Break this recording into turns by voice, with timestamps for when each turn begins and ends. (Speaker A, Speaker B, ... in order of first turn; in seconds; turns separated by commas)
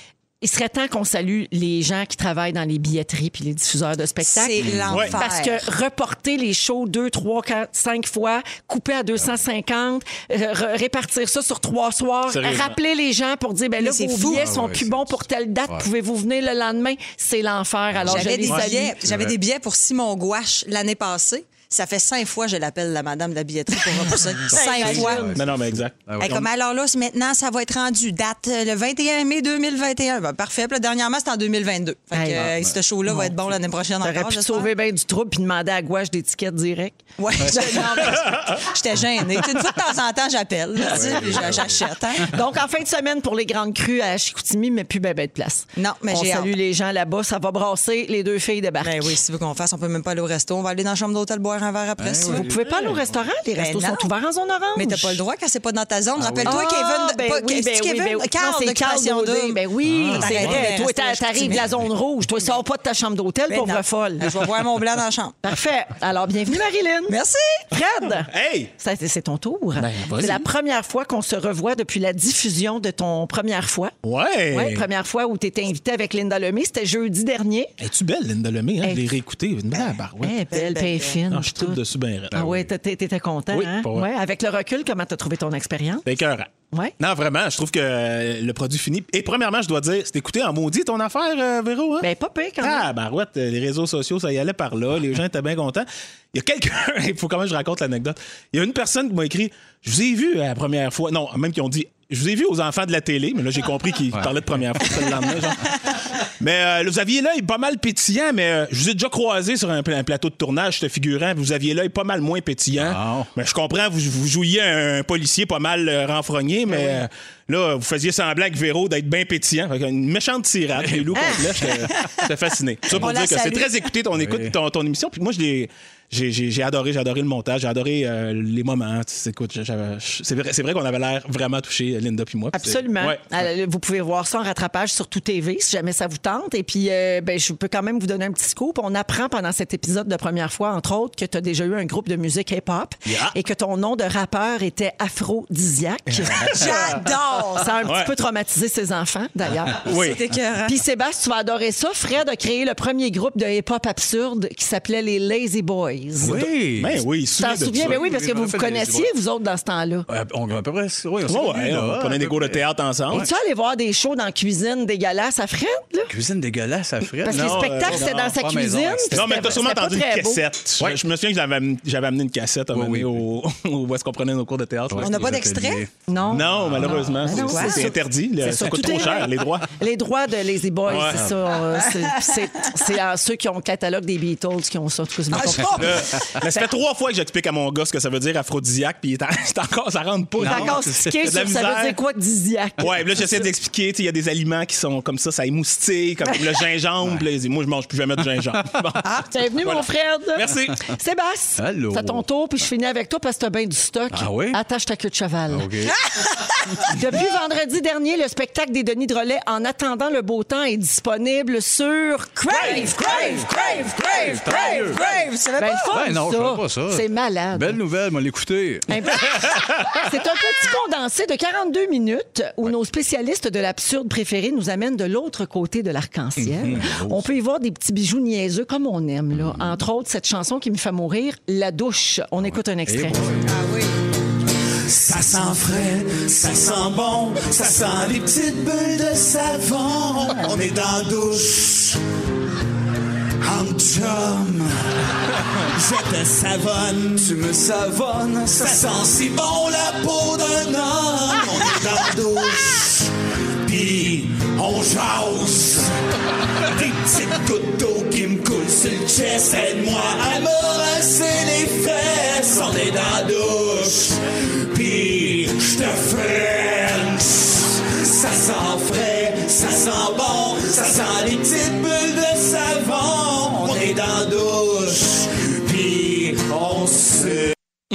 Speaker A: 0.4-18.9, Speaker B: 4.2-5.6, Speaker C: 4.7-5.1, Speaker D: 4.9-5.2, Speaker D: 12.3-12.8, Speaker B: 13.8-14.5, Speaker C: 14.3-15.1, Speaker C: 17.9-18.3, Speaker B: 18.1-25.3, Speaker C: 19.0-19.4, Speaker A: 24.4-25.4, Speaker D: 24.8-26.1, Speaker C: 24.9-26.4, Speaker B: 26.2-34.7, Speaker A: 32.1-32.5, Speaker C: 32.4-32.7, Speaker A: 33.1-33.3, Speaker A: 34.0-38.2, Speaker B: 37.2-42.3, Speaker C: 40.9-41.8, Speaker A: 40.9-41.7, Speaker A: 42.2-49.2, Speaker B: 45.8-46.5, Speaker B: 48.8-52.5, Speaker C: 52.0-53.0, Speaker A: 52.3-55.2, Speaker B: 53.6-54.1, Speaker B: 54.8-59.6, Speaker C: 56.2-56.5, Speaker A: 56.5-64.3, Speaker C: 59.9-60.5, Speaker D: 60.0-60.3, Speaker B: 60.2-61.7, Speaker B: 63.5-65.4, Speaker A: 65.4-67.2, Speaker B: 67.1-67.6, Speaker A: 67.7-73.9, Speaker D: 68.1-68.7, Speaker D: 69.8-70.5, Speaker D: 74.0-74.9, Speaker A: 74.5-77.7, Speaker D: 77.8-80.4, Speaker A: 80.2-81.8, Speaker B: 80.5-81.2, Speaker D: 81.3-82.7, Speaker A: 82.3-86.1, Speaker D: 83.5-84.1, Speaker D: 86.1-92.1, Speaker A: 92.0-92.9, Speaker D: 92.6-105.8, Speaker D: 106.4-133.2, Speaker C: 112.8-113.3, Speaker C: 120.8-121.4, Speaker B: 122.9-123.8, Speaker C: 124.2-124.5, Speaker A: 132.5-150.0, Speaker D: 146.1-146.9, Speaker B: 146.4-147.8, Speaker D: 147.8-148.1, Speaker B: 149.8-150.8, Speaker D: 149.8-150.2, Speaker A: 150.7-156.4, Speaker C: 156.2-157.0, Speaker D: 156.2-158.0, Speaker A: 157.4-160.1, Speaker C: 157.7-159.1, Speaker C: 160.1-163.3, Speaker D: 161.3-163.3, Speaker A: 163.1-166.1, Speaker C: 166.1-169.5, Speaker A: 167.2-170.4, Speaker D: 167.2-168.3, Speaker D: 169.1-175.2, Speaker C: 172.7-173.2, Speaker C: 174.9-175.9, Speaker B: 175.0-175.9, Speaker A: 176.1-186.6, Speaker D: 176.3-179.7, Speaker C: 176.4-177.6, Speaker B: 177.5-177.9, Speaker D: 180.9-181.3, Speaker B: 185.3-186.0, Speaker D: 185.8-192.0, Speaker C: 190.4-191.3, Speaker A: 190.4-192.9, Speaker D: 192.8-200.8, Speaker A: 199.3-205.7, Speaker C: 201.6-202.2, Speaker C: 204.1-204.6, Speaker C: 205.5-206.0, Speaker B: 206.2-206.6, Speaker A: 206.8-214.9, Speaker B: 212.6-215.9, Speaker C: 212.7-215.0, Speaker A: 215.6-217.8, Speaker C: 215.9-218.9, Speaker A: 218.9-233.2, Speaker C: 226.4-227.3, Speaker C: 229.4-229.8, Speaker C: 232.9-233.5, Speaker B: 233.5-234.0, Speaker E: 234.9-242.0, Speaker E: 243.4-247.4, Speaker C: 248.2-248.6, Speaker E: 248.4-253.1, Speaker E: 253.6-255.9, Speaker E: 256.6-277.5